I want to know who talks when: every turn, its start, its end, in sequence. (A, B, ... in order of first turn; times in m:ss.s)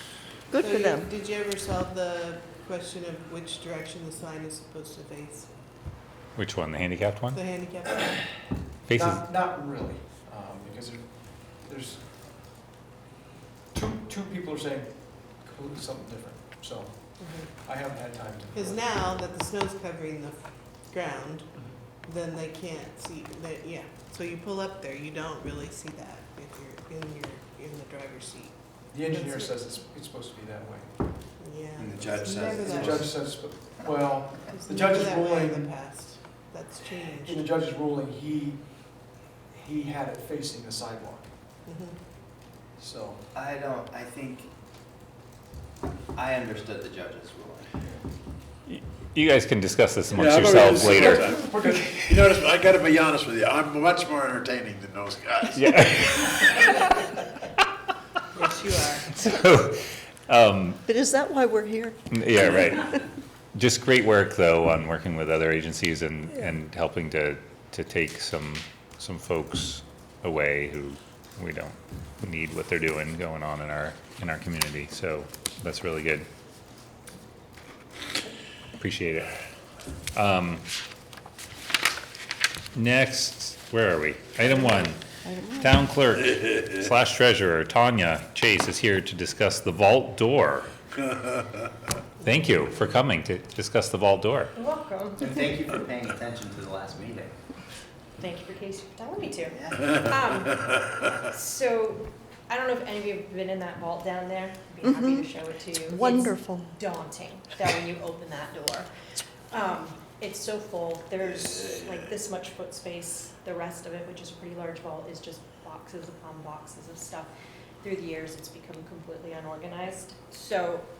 0:00.5-0:01.1 A
0:00.6-0:05.6 B
0:06.3-0:07.4 C
0:07.3-0:08.3 B
0:08.8-0:09.2 C
0:08.9-0:12.3 D
0:13.7-0:18.8 D
0:17.2-0:17.5 B
0:18.5-0:29.5 B
0:28.9-0:31.1 D
0:31.4-0:33.5 B
0:31.8-0:33.1 E
0:32.7-0:35.9 D
0:34.5-0:37.4 B
0:37.2-0:41.3 D
0:41.6-0:42.0 B
0:42.7-0:43.2 D
0:43.3-0:44.5 E
0:46.1-0:47.7 E
0:47.8-0:48.0 D
0:48.6-0:51.7 C
0:50.1-0:55.9 F
0:50.8-0:52.0 D
0:55.5-0:56.8 C
0:58.3-0:59.1 B
0:59.1-1:00.8 C
1:00.8-1:03.0 A
1:02.1-1:03.0 C
1:03.5-1:16.3 C
1:18.8-1:19.3 C
1:20.1-1:20.6 C
1:22.7-1:30.7 C
1:25.2-1:25.8 A
1:32.2-1:34.5 C
1:34.5-1:35.2 G
1:35.2-1:37.3 E
1:38.2-1:48.9 G
1:44.8-1:46.7 A
1:49.5-1:57.3 G
1:57.8-2:00.8 G